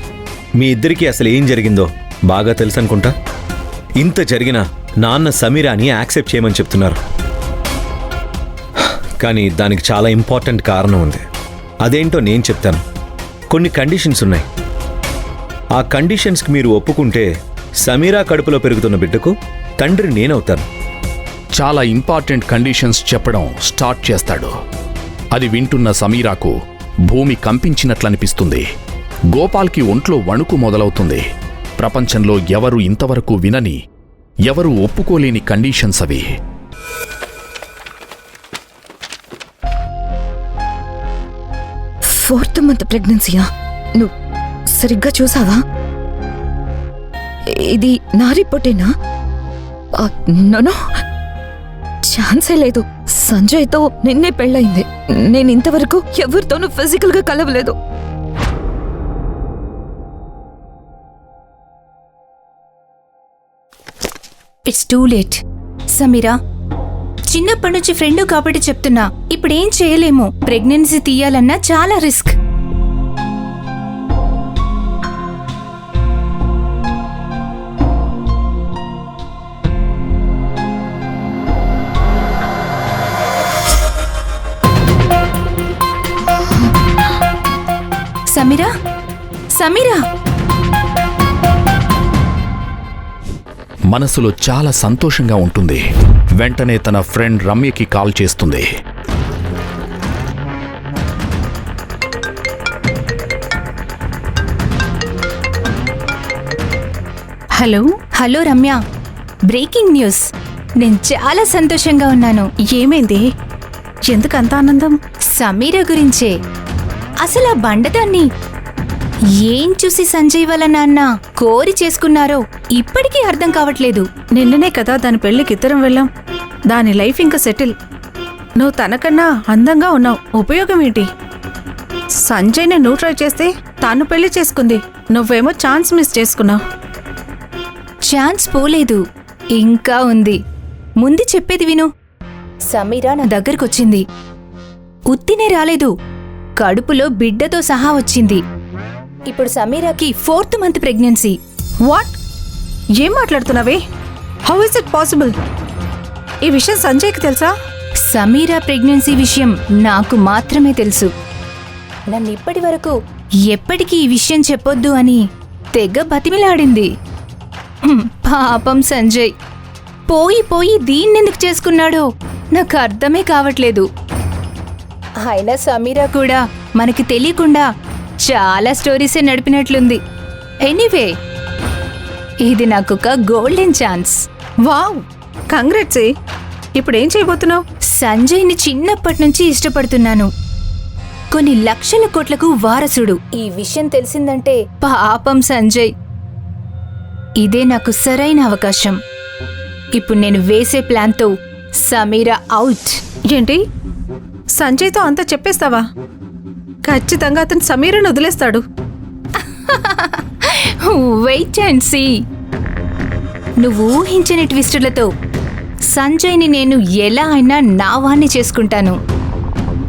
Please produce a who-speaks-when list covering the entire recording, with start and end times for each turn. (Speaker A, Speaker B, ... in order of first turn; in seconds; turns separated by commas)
Speaker A: 0.6-3.1, Speaker A: 4.0-7.0, Speaker A: 9.2-11.2, Speaker A: 11.8-12.8, Speaker A: 13.5-14.4, Speaker A: 15.8-17.3, Speaker A: 17.8-20.7, Speaker B: 21.6-24.5, Speaker B: 25.3-26.6, Speaker B: 27.1-28.7, Speaker B: 29.3-31.2, Speaker B: 31.8-33.8, Speaker B: 34.5-36.3, Speaker C: 42.1-43.5, Speaker C: 44.7-45.6, Speaker C: 47.6-48.9, Speaker C: 50.0-50.8, Speaker C: 52.1-57.8, Speaker D: 64.7-65.4, Speaker D: 65.9-66.3, Speaker D: 67.3-72.4, Speaker D: 88.3-88.7, Speaker D: 89.6-90.0, Speaker B: 93.9-95.8, Speaker B: 96.4-98.7, Speaker E: 107.5-108.0, Speaker D: 108.2-108.8, Speaker D: 109.5-110.2, Speaker D: 110.8-112.5, Speaker E: 112.7-113.2, Speaker E: 114.1-115.0, Speaker D: 115.4-116.3, Speaker D: 117.2-118.3, Speaker D: 119.4-124.1, Speaker E: 124.3-126.1, Speaker E: 126.7-127.8, Speaker E: 128.6-131.1, Speaker E: 132.2-136.6, Speaker D: 138.1-139.0, Speaker D: 139.6-140.4, Speaker D: 141.0-141.9, Speaker D: 142.7-144.0, Speaker D: 145.1-145.9, Speaker D: 146.6-148.4, Speaker D: 149.3-151.4, Speaker E: 151.9-152.2, Speaker E: 153.0-153.8, Speaker E: 154.5-155.3, Speaker E: 156.4-157.5, Speaker D: 158.1-161.1, Speaker D: 162.1-162.9, Speaker D: 163.5-165.2, Speaker D: 165.8-166.9, Speaker D: 167.9-169.3, Speaker D: 170.1-173.9, Speaker D: 175.2-177.7, Speaker D: 178.3-180.0, Speaker D: 180.7-181.1, Speaker D: 182.5-184.2, Speaker E: 184.7-186.1, Speaker E: 186.8-187.6, Speaker D: 188.0-190.3, Speaker D: 191.3-195.9, Speaker D: 197.4-199.0, Speaker D: 200.0-201.3, Speaker D: 201.8-203.0, Speaker E: 203.3-203.6, Speaker E: 204.6-205.8, Speaker E: 206.8-208.6, Speaker D: 209.7-212.1, Speaker D: 213.6-215.1, Speaker D: 215.9-219.0